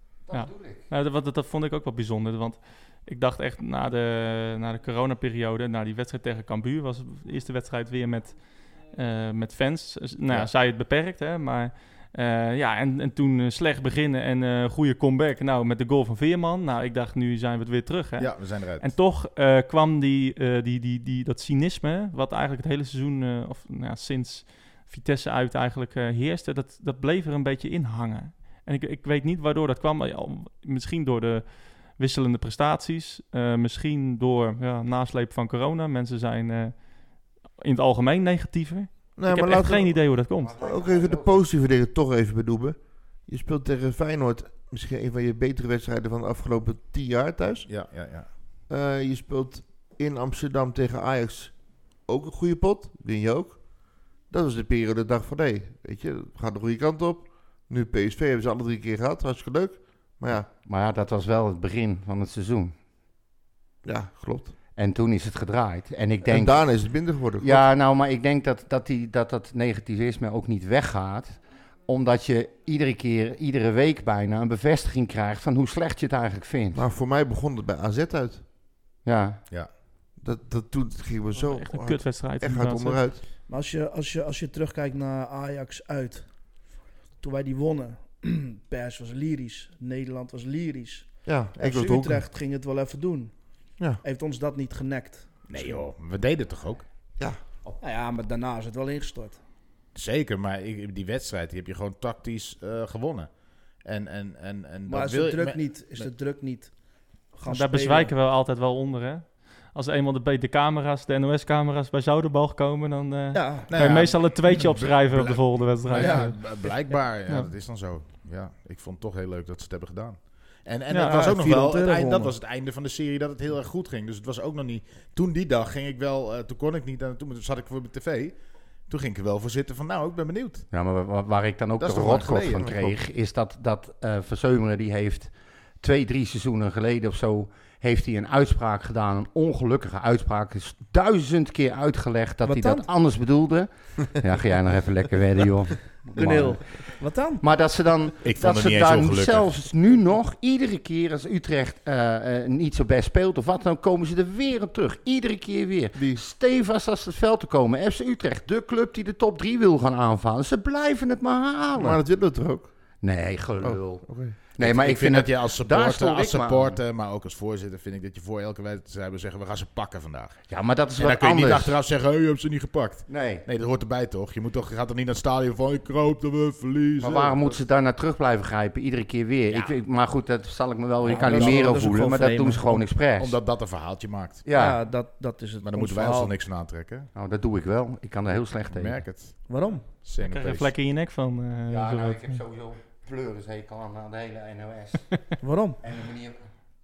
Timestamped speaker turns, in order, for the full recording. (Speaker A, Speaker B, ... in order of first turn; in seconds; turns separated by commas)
Speaker A: 0.2-0.9, Speaker B: 0.3-40.5, Speaker C: 18.2-18.9, Speaker D: 39.1-47.7, Speaker A: 40.4-41.4, Speaker C: 47.6-48.3, Speaker D: 48.7-53.6, Speaker D: 54.3-60.5, Speaker A: 60.6-62.7, Speaker D: 63.8-64.5, Speaker A: 64.8-66.8, Speaker D: 66.2-67.7, Speaker A: 67.4-76.8, Speaker D: 76.7-78.4, Speaker A: 79.0-79.4, Speaker D: 80.2-83.2, Speaker B: 81.3-83.0, Speaker E: 83.5-86.3, Speaker E: 87.2-93.4, Speaker D: 91.2-92.2, Speaker E: 94.0-95.8, Speaker C: 95.5-96.8, Speaker E: 97.8-99.4, Speaker C: 99.9-103.3, Speaker C: 103.8-106.1, Speaker E: 104.8-106.7, Speaker E: 107.3-108.1, Speaker B: 107.5-116.3, Speaker E: 113.3-113.7, Speaker C: 113.7-128.3, Speaker E: 115.9-116.3, Speaker B: 120.9-121.2, Speaker E: 121.0-122.3, Speaker C: 128.9-130.7, Speaker A: 130.7-135.3, Speaker C: 131.8-132.7, Speaker A: 135.8-162.0, Speaker E: 142.4-142.9, Speaker E: 146.1-147.4, Speaker C: 148.2-149.5, Speaker D: 155.9-156.2, Speaker D: 161.7-162.7, Speaker A: 163.0-166.8, Speaker D: 163.6-164.4, Speaker C: 164.6-170.4, Speaker A: 170.5-171.8, Speaker C: 171.0-177.6, Speaker A: 173.1-173.4, Speaker A: 177.0-183.4, Speaker E: 181.0-182.9, Speaker C: 181.1-181.8, Speaker C: 183.2-184.5, Speaker A: 184.4-184.8, Speaker E: 184.5-186.3, Speaker C: 185.6-187.1, Speaker A: 187.1-189.0, Speaker C: 188.7-189.4, Speaker E: 189.5-189.9, Speaker C: 190.0-190.7, Speaker B: 190.2-192.4, Speaker A: 191.7-195.2, Speaker E: 195.4-195.8, Speaker A: 195.8-196.4